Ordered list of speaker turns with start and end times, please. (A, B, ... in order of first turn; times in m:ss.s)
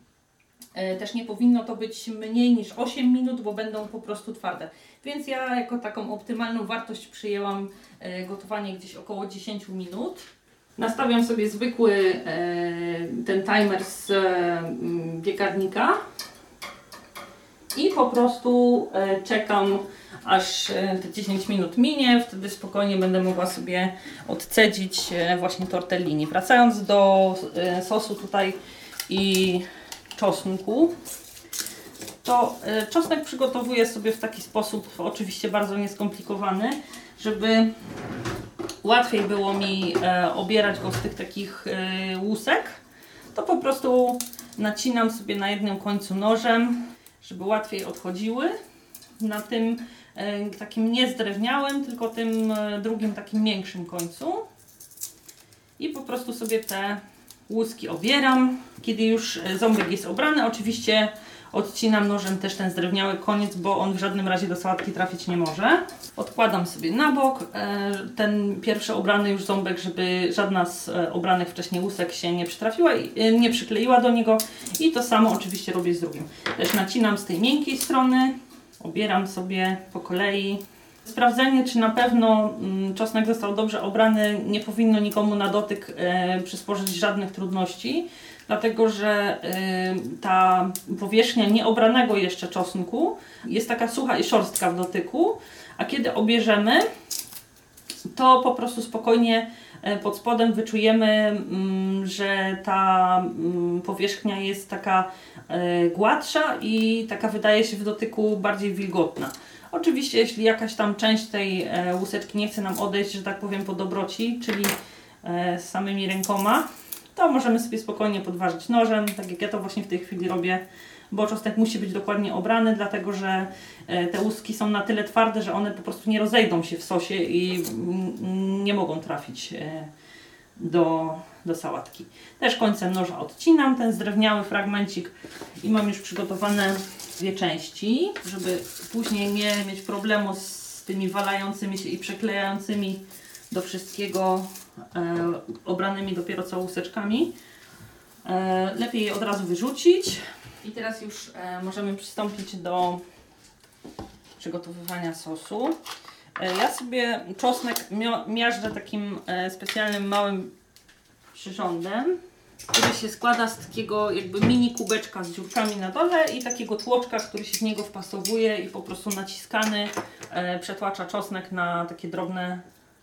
0:00.7-0:10.3 A
0:10.8-0:16.0 A
0:17.7-0:28.6 A
0:29.1-0:30.9 A
0:32.2-0:37.7 A
0:38.8-0:42.8 A
0:43.3-0:48.5 A
0:49.2-0:54.4 A
0:55.8-1:36.9 A
1:38.1-2:09.9 A
2:10.6-2:27.3 A
2:28.2-2:33.0 A
2:34.4-2:35.8 A
2:36.4-2:40.5 A
2:41.3-2:42.2 A
2:42.7-2:52.6 A